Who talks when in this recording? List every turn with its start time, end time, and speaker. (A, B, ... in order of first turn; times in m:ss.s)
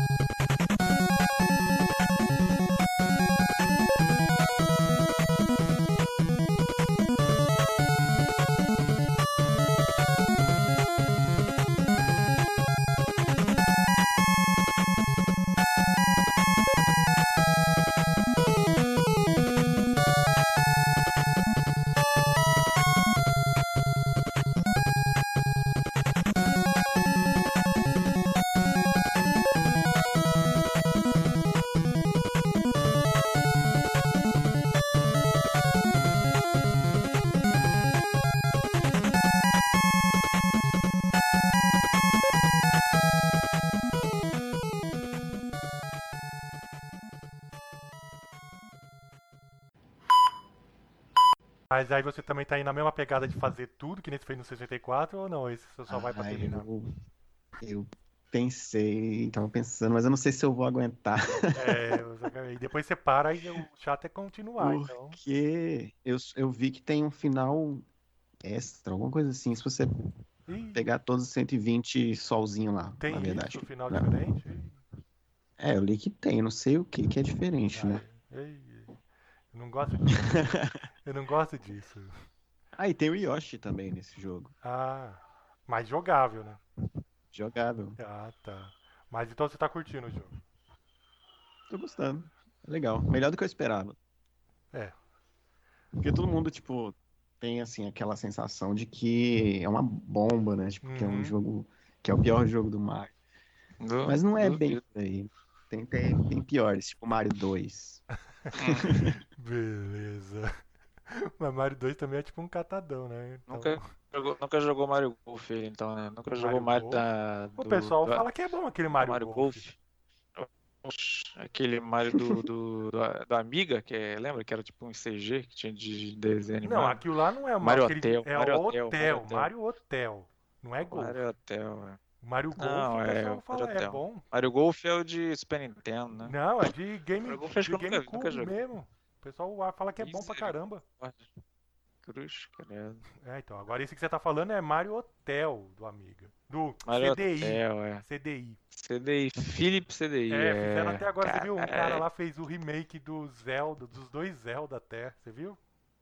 0:51.7-0:56.7 A
0:55.9-0:56.9 B
0:57.6-1:02.0 B
1:01.6-1:05.2 A
1:04.6-1:07.8 B
1:08.4-1:10.0 B
1:10.5-1:10.8 A
1:10.7-1:14.1 B
1:13.0-1:14.8 A
1:15.6-1:18.0 B
1:17.7-1:19.0 A
1:19.5-1:20.5 A
1:20.0-1:20.8 B
1:21.0-1:22.1 A
1:22.8-1:24.5 B
1:24.6-1:26.6 A
1:27.3-1:28.0 B
1:28.0-1:30.4 A
1:31.7-1:34.0 B
1:36.0-1:43.1 B
1:40.8-1:41.4 A
1:43.8-1:44.8 C
1:44.0-1:48.0 B
1:48.4-1:50.5 A
1:48.5-1:48.9 C
1:48.6-1:49.2 B
1:51.1-1:53.8 A
1:53.5-1:58.3 C
1:56.3-1:57.0 A
1:57.6-1:59.6 A
1:58.9-1:59.8 C
2:00.4-2:07.0 C
2:06.6-2:11.3 A
2:07.6-2:09.5 C
2:10.8-2:12.0 C
2:12.2-2:14.2 A
2:12.6-2:16.4 C
2:16.2-2:20.8 A
2:17.2-2:18.6 C
2:20.0-2:21.3 C
2:22.0-2:23.0 C
2:23.2-2:28.6 A
2:26.8-2:28.0 C
2:28.7-2:32.0 C
2:30.3-2:35.6 A